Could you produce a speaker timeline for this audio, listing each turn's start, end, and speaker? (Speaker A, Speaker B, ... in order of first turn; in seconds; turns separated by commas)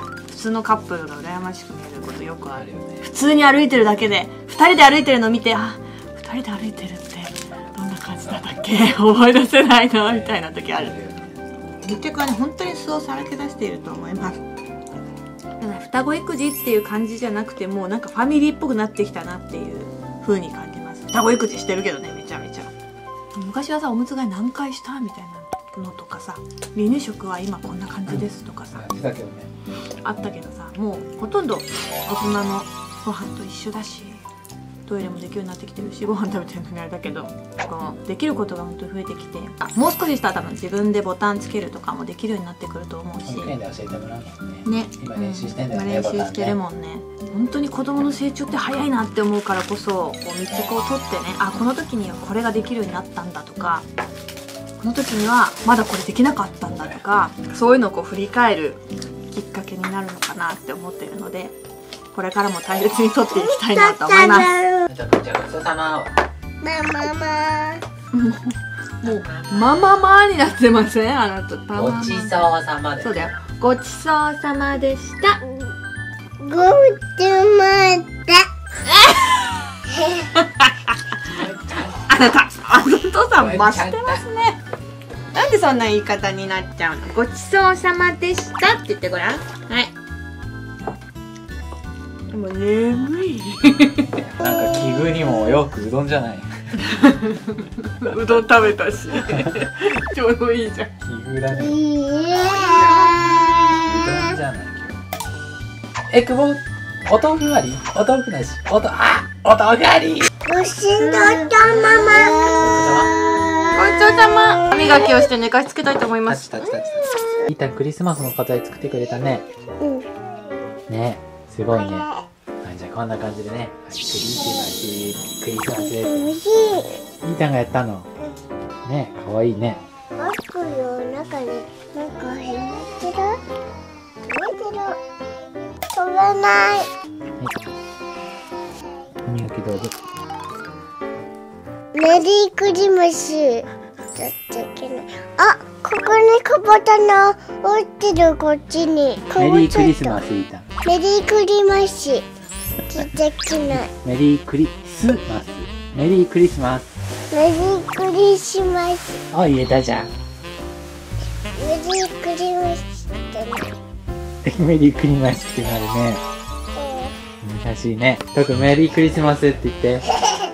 Speaker A: 0.3-10.9, Speaker B: 2.5-3.0, Speaker B: 10.0-11.4, Speaker A: 11.8-14.4, Speaker A: 15.6-22.7, Speaker A: 23.3-28.9, Speaker B: 28.1-29.5, Speaker A: 30.0-34.2, Speaker A: 34.8-43.5, Speaker B: 43.2-46.6, Speaker A: 44.6-53.8, Speaker A: 54.8-61.5, Speaker B: 56.7-57.0, Speaker A: 62.1-64.6, Speaker C: 63.3-64.9, Speaker B: 64.9-66.1, Speaker C: 66.6-67.8, Speaker A: 68.1-72.5, Speaker B: 71.7-73.2, Speaker A: 73.0-75.4, Speaker C: 76.4-78.5, Speaker A: 78.8-79.5, Speaker A: 80.2-81.2, Speaker A: 81.9-84.6, Speaker B: 83.4-84.2, Speaker A: 85.3-89.9, Speaker A: 92.3-94.2, Speaker B: 94.4-96.5, Speaker A: 96.9-100.9, Speaker B: 101.0-101.8, Speaker C: 101.5-104.3, Speaker A: 102.5-103.5, Speaker B: 103.9-105.0, Speaker B: 106.1-110.3, Speaker C: 110.4-113.7, Speaker A: 110.9-112.5, Speaker B: 112.5-113.1, Speaker A: 113.7-116.8, Speaker B: 116.3-119.5, Speaker C: 119.8-120.1, Speaker B: 120.9-122.1, Speaker C: 121.7-122.2, Speaker B: 122.6-126.2, Speaker C: 125.8-127.0, Speaker B: 127.2-128.1, Speaker B: 128.8-129.8, Speaker C: 130.2-133.4, Speaker C: 134.2-135.0, Speaker C: 135.9-136.9, Speaker B: 139.2-139.9, Speaker C: 141.9-150.2, Speaker B: 149.4-150.6, Speaker C: 150.8-152.2, Speaker C: 152.9-153.9, Speaker B: 153.8-156.9, Speaker C: 157.3-159.2, Speaker B: 159.3-160.1, Speaker C: 161.5-163.8, Speaker B: 164.4-166.2, Speaker C: 166.7-167.2, Speaker B: 167.4-170.1